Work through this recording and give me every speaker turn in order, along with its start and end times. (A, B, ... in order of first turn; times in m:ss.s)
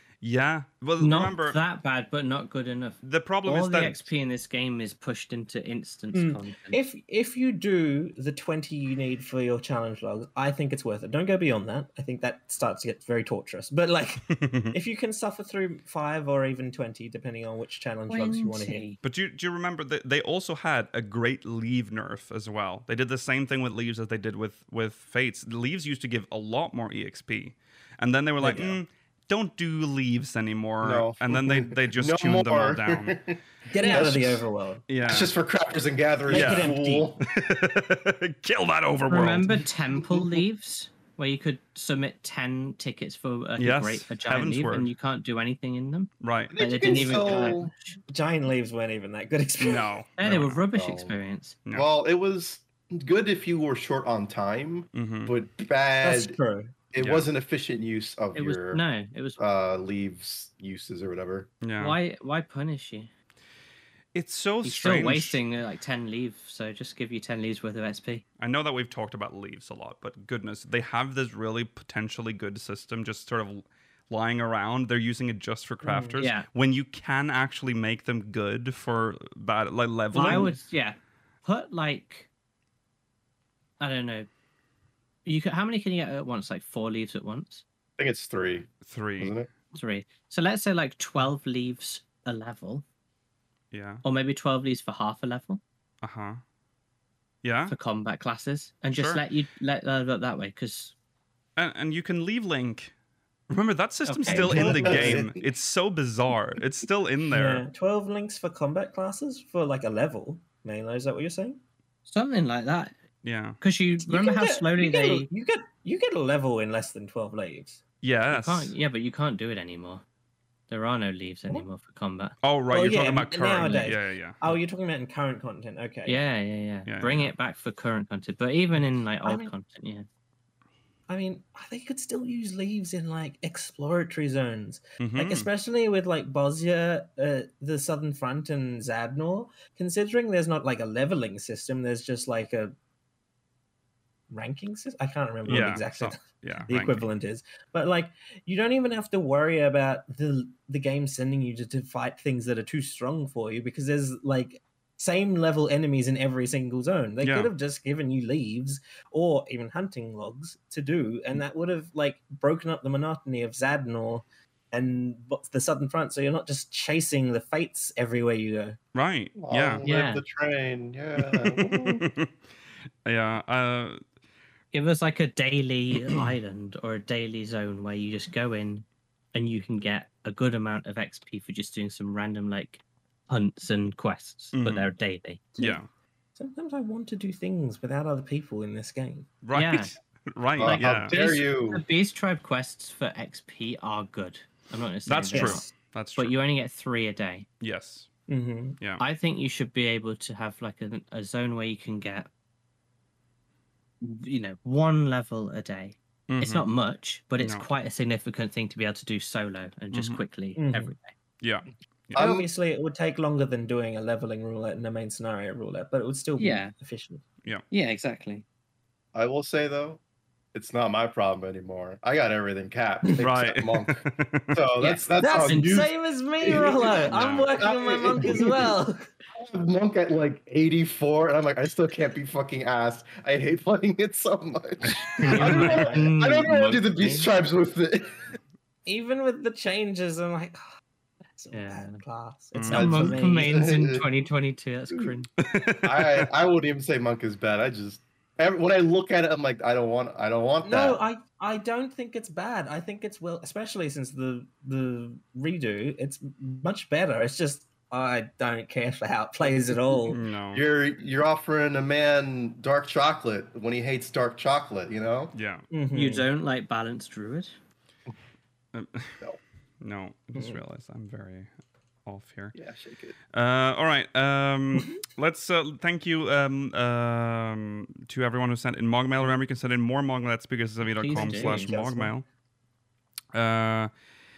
0:00.2-0:01.6 A
0:01.0-0:06.8 B
0:03.0-0:04.1 A
0:06.1-0:18.8 C
0:14.3-0:14.7 A
0:18.1-0:19.0 B
0:19.0-0:33.2 A
0:28.4-0:28.7 C
0:30.8-0:34.4 D
0:33.7-0:34.8 C
0:34.9-0:35.3 A
0:35.0-0:37.3 D
0:36.3-0:37.1 C
0:36.3-0:39.6 A
0:39.1-0:47.9 B
0:40.1-0:40.4 D
0:43.6-0:44.9 A
0:46.2-0:46.5 A
0:46.5-0:47.7 D
0:46.8-0:49.9 C
0:49.6-0:50.6 A
0:50.2-0:51.6 B
0:50.2-0:51.2 D
0:51.7-0:56.4 D
0:54.9-0:55.3 A
0:56.0-0:56.7 C
0:56.9-0:58.8 D
0:57.0-0:57.3 A
0:58.3-0:59.4 B
0:59.4-1:01.5 D
1:01.6-1:02.0 A
1:01.8-1:03.1 B
1:04.1-1:05.4 A
1:04.6-1:08.2 B
1:08.4-1:20.6 A
1:15.8-1:16.2 C
1:16.2-1:16.5 B
1:20.1-1:22.3 B
1:20.1-1:20.6 C
1:23.8-1:24.3 B
1:25.2-1:27.6 B
1:28.0-1:29.5 D
1:28.8-1:29.4 A
1:29.7-1:32.8 B
1:33.7-1:34.0 A
1:34.0-1:35.6 B
1:36.0-1:36.4 A
1:37.4-1:37.7 A
1:37.7-1:40.9 B
1:38.9-1:39.2 A
1:41.6-1:42.9 A
1:43.5-1:47.6 A
1:44.0-1:45.2 B
1:44.2-1:45.4 D
1:44.5-1:45.1 C
1:47.3-1:51.6 C
1:52.0-1:53.0 B
1:53.2-1:53.6 A
1:53.6-1:55.3 B
1:54.0-1:57.8 C
1:58.0-1:58.7 A
1:58.3-2:00.0 B
2:00.7-2:02.4 B
2:02.4-2:04.4 A
2:02.7-2:06.2 C
2:03.6-2:03.9 B
2:06.0-2:10.0 B
2:06.9-2:07.3 A
2:09.2-2:09.5 C
2:11.1-2:22.7 C
2:15.0-2:15.5 A
2:24.3-2:48.8 C
2:25.4-2:27.0 A
2:37.2-2:37.5 A
2:48.9-2:49.8 A
2:49.4-2:52.0 D
2:49.8-2:50.2 B
2:51.2-2:52.3 A
2:53.0-2:54.0 A
2:54.7-3:05.5 B
2:56.0-2:56.3 A
3:04.5-3:04.9 A
3:05.6-3:05.9 A
3:06.4-3:09.3 C
3:09.4-3:11.2 A
3:09.5-3:09.9 B
3:10.6-3:11.8 D
3:10.6-3:17.5 B
3:15.0-3:16.4 A
3:15.3-3:15.7 C
3:17.6-3:18.1 A
3:18.3-3:18.8 C
3:19.0-3:22.3 B
3:24.0-3:31.1 B
3:26.3-3:26.7 A
3:27.4-3:27.6 A
3:29.9-3:30.2 A
3:30.6-3:30.9 C
3:31.4-3:32.2 A
3:32.1-3:32.4 D
3:32.1-3:37.2 C
3:36.4-3:36.7 B
3:37.7-3:38.4 B
3:39.1-3:40.0 D
3:40.5-3:48.7 D
3:43.2-3:44.6 A
3:44.8-3:45.8 B
3:45.2-3:49.0 C
3:47.1-3:47.5 A
3:49.3-3:58.2 D
3:55.2-3:55.8 A
3:55.2-3:57.3 B
3:55.2-3:56.0 C
3:58.8-4:00.7 C
4:01.3-4:03.8 C
4:01.5-4:02.0 B
4:02.5-4:03.1 A
4:02.7-4:05.3 B
4:02.7-4:04.1 D
4:05.4-4:06.3 A
4:05.8-4:11.0 D
4:10.6-4:20.2 C
4:19.6-4:25.3 D
4:20.1-4:20.6 A
4:25.3-4:25.7 A
4:25.7-4:26.3 C
4:25.9-4:27.5 B
4:28.7-4:29.2 A
4:29.8-4:31.5 A
4:32.0-4:32.6 A
4:32.5-4:33.2 D
4:33.3-4:42.2 A
4:40.8-4:41.7 B
4:41.1-4:42.1 C
4:43.3-4:43.9 A